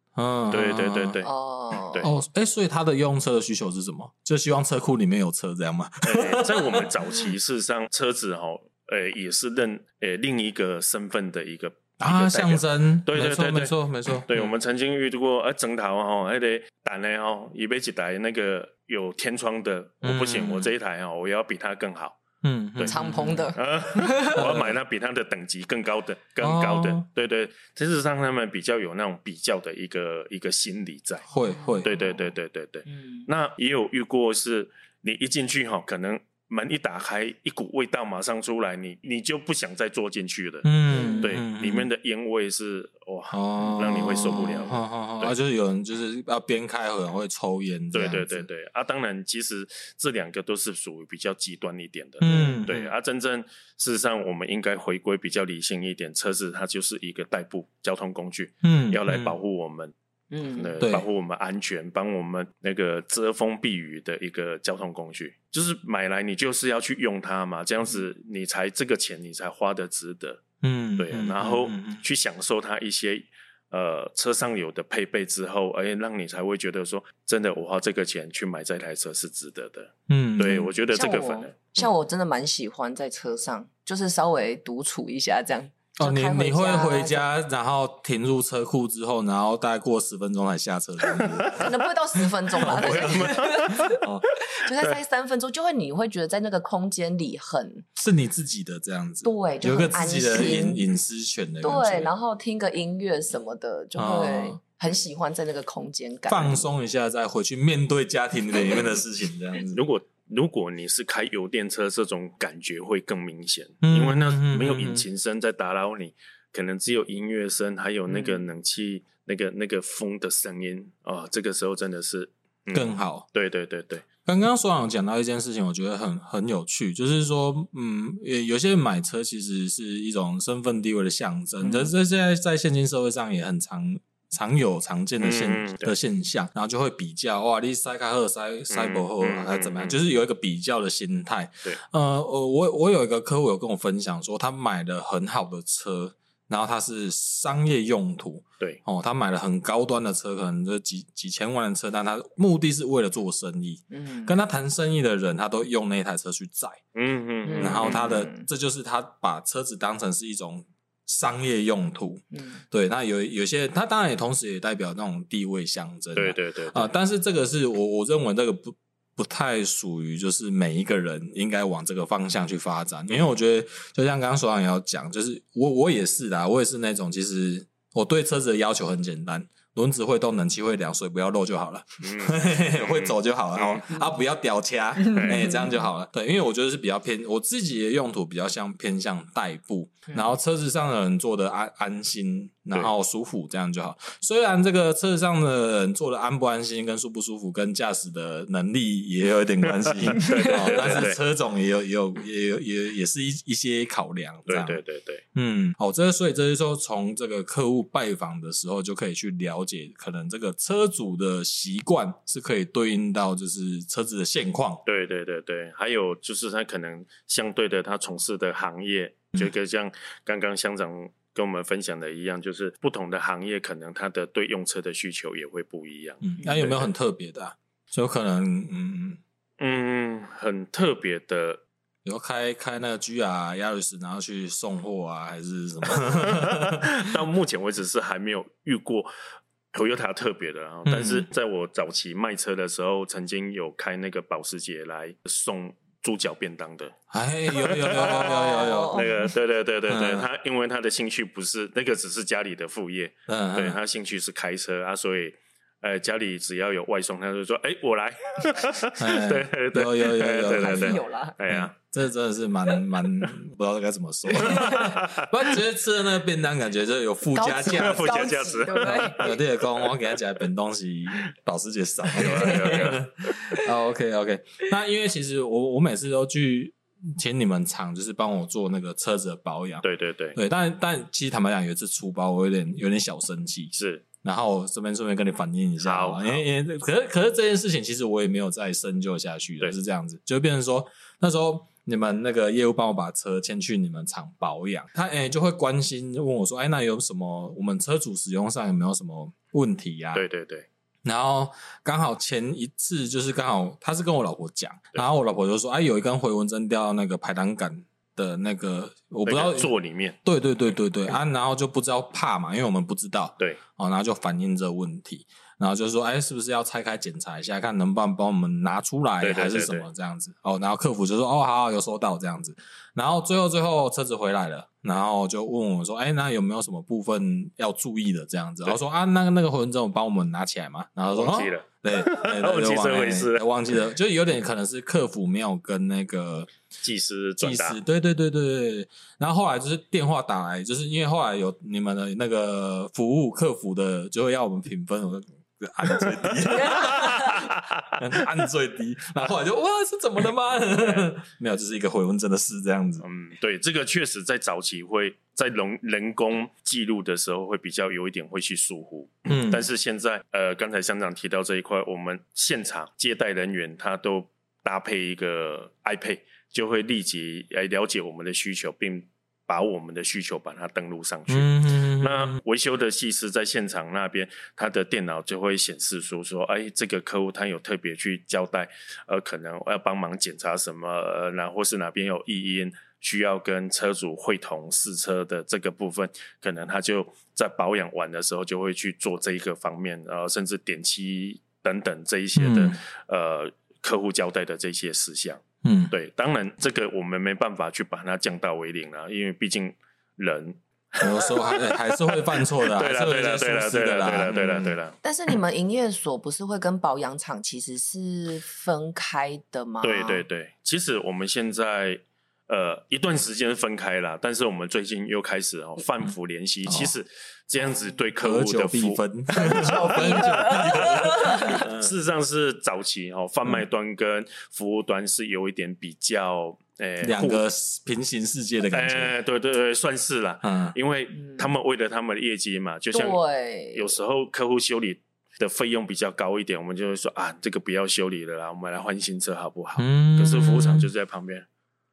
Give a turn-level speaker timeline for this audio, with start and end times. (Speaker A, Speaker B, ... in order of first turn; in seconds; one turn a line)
Speaker A: 0.2-1.2
Speaker B: 0.5-2.1
Speaker C: 1.2-2.1
Speaker A: 2.0-7.3
Speaker B: 6.0-22.2
Speaker A: 12.0-14.6
Speaker A: 20.0-20.7
Speaker A: 22.4-23.5
Speaker B: 22.8-31.3
Speaker C: 22.9-24.4
Speaker A: 24.4-24.7
Speaker A: 26.4-27.1
Speaker A: 31.3-31.9
Speaker C: 31.4-32.1
Speaker B: 31.8-45.4
Speaker C: 32.9-33.3
Speaker A: 40.6-41.9
Speaker C: 40.9-41.3
Speaker A: 43.3-48.5
Speaker B: 47.9-59.9
Speaker A: 52.2-52.9
Speaker C: 52.2-52.6
Speaker A: 58.6-59.4
Speaker C: 60.3-60.8
Speaker B: 60.5-70.4
Speaker A: 60.8-61.1
Speaker A: 70.6-72.0
Speaker B: 71.0-81.8
Speaker A: 80.1-80.7
Speaker C: 80.9-87.2
Speaker A: 86.0-91.8
Speaker B: 91.1-91.7
Speaker C: 91.5-97.8
Speaker A: 92.5-94.2
Speaker B: 92.6-94.1
Speaker A: 98.0-102.1
Speaker C: 99.2-100.8
Speaker C: 101.6-106.7
Speaker A: 104.0-104.6
Speaker A: 106.3-109.8
Speaker B: 109.7-124.1
Speaker A: 113.8-115.1
Speaker C: 118.1-118.5
Speaker A: 122.7-123.3
Speaker A: 124.2-156.8
Speaker B: 135.2-135.9
Speaker B: 138.7-140.0
Speaker C: 153.9-154.4
Speaker B: 156.9-158.2
Speaker C: 157.4-158.5
Speaker A: 157.6-204.8
Speaker C: 162.3-162.6
Speaker B: 166.2-166.9
Speaker B: 182.0-183.9
Speaker C: 185.0-185.7
Speaker B: 185.1-185.5
Speaker C: 190.1-190.3
Speaker B: 199.7-201.2
Speaker C: 200.2-201.0
Speaker B: 204.5-205.2
Speaker A: 205.3-214.8
Speaker B: 214.9-226.9
Speaker A: 226.2-229.2
Speaker B: 229.6-231.6
Speaker A: 232.1-237.2
Speaker B: 235.9-239.1
Speaker B: 239.7-246.9
Speaker A: 240.9-241.3
Speaker A: 247.1-249.2
Speaker B: 247.5-261.8
Speaker C: 247.9-249.3
Speaker A: 249.9-250.3
Speaker A: 253.3-253.8
Speaker A: 259.0-268.2
Speaker C: 260.5-261.4
Speaker B: 264.3-265.3
Speaker C: 264.4-264.9
Speaker C: 267.3-269.3
Speaker B: 267.6-269.9
Speaker A: 268.8-300.2
Speaker B: 272.1-273.3
Speaker B: 279.8-280.4
Speaker B: 283.7-284.1
Speaker B: 285.8-286.4
Speaker B: 300.1-300.7
Speaker A: 301.1-309.7
Speaker B: 309.3-310.2
Speaker A: 310.2-336.5
Speaker B: 319.2-319.9
Speaker B: 331.1-333.5
Speaker B: 336.8-337.8
Speaker A: 337.4-353.1
Speaker B: 346.0-348.2
Speaker B: 350.8-351.1
Speaker B: 353.0-405.0
Speaker A: 359.3-359.7
Speaker A: 371.3-372.4
Speaker A: 392.4-392.8
Speaker A: 395.6-395.9
Speaker A: 401.0-404.8
Speaker C: 405.0-410.2
Speaker B: 409.8-427.4
Speaker A: 416.7-416.9
Speaker A: 418.2-421.9
Speaker C: 419.3-421.7
Speaker A: 427.0-429.1
Speaker B: 428.7-433.2
Speaker A: 430.4-430.8
Speaker C: 431.1-431.5
Speaker C: 432.9-433.9
Speaker B: 433.7-441.5
Speaker A: 439.8-440.9